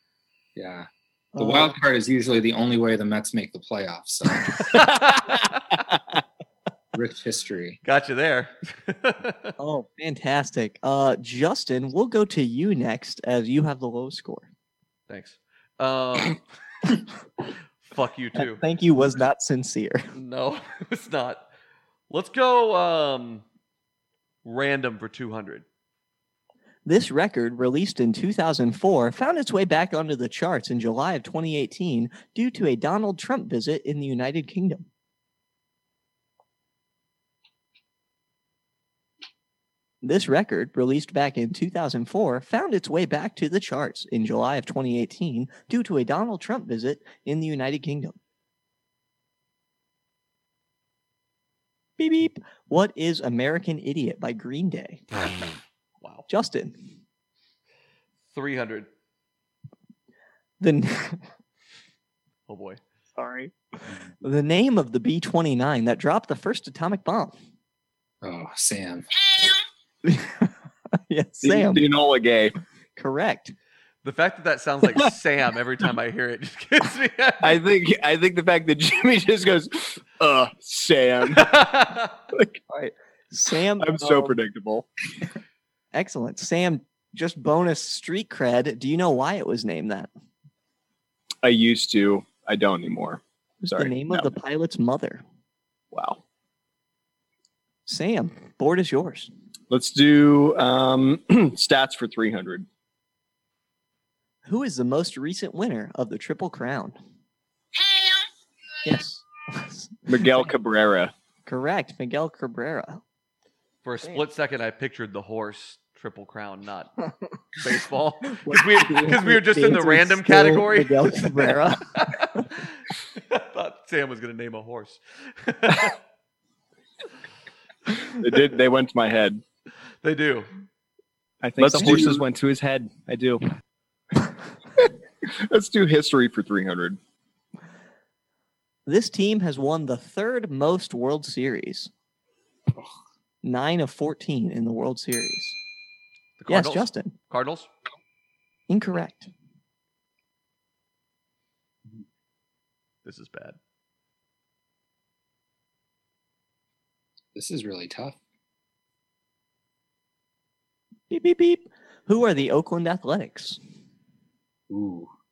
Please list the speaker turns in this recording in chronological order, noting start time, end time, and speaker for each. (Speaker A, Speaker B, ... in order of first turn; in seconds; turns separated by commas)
Speaker A: 0.6-4.8, Speaker B: 1.3-1.8, Speaker C: 5.1-5.4, Speaker A: 6.9-7.8, Speaker C: 7.8-9.5, Speaker B: 9.6-14.5, Speaker C: 15.1-16.4, Speaker C: 17.8-18.6, Speaker B: 18.4-20.1, Speaker C: 20.1-21.5, Speaker C: 22.1-23.4, Speaker C: 24.4-25.6, Speaker B: 26.9-34.9, Speaker B: 40.0-48.2, Speaker B: 52.0-55.0, Speaker C: 56.0-56.3, Speaker B: 56.3-56.8, Speaker C: 58.3-58.9, Speaker B: 60.6-61.2, Speaker C: 62.5-62.8, Speaker B: 63.2-67.4, Speaker A: 68.2-69.1, Speaker B: 70.0-70.5, Speaker B: 71.1-71.8, Speaker D: 71.4-72.5, Speaker B: 73.0-73.5, Speaker C: 74.0-77.6, Speaker D: 77.4-81.6, Speaker C: 81.3-82.1, Speaker D: 82.3-82.6, Speaker B: 82.7-84.4, Speaker D: 83.8-84.9, Speaker B: 85.9-90.1, Speaker D: 91.4-93.2, Speaker B: 93.6-95.2, Speaker D: 93.7-94.3, Speaker D: 95.9-96.2, Speaker B: 97.9-99.3, Speaker D: 99.7-102.7, Speaker B: 104.5-107.0, Speaker B: 108.8-110.5, Speaker D: 110.1-111.1, Speaker B: 111.5-113.0, Speaker C: 113.8-116.9, Speaker C: 117.6-126.0, Speaker B: 118.3-122.4, Speaker D: 128.1-129.4, Speaker C: 130.0-130.5, Speaker D: 131.4-133.4, Speaker B: 131.6-132.2, Speaker D: 134.8-137.0, Speaker B: 138.9-141.9, Speaker B: 143.4-145.6, Speaker C: 146.4-147.7, Speaker B: 146.5-147.2, Speaker B: 148.7-149.3, Speaker C: 153.1-153.6, Speaker A: 157.3-158.2, Speaker B: 161.1-163.6, Speaker A: 164.7-165.1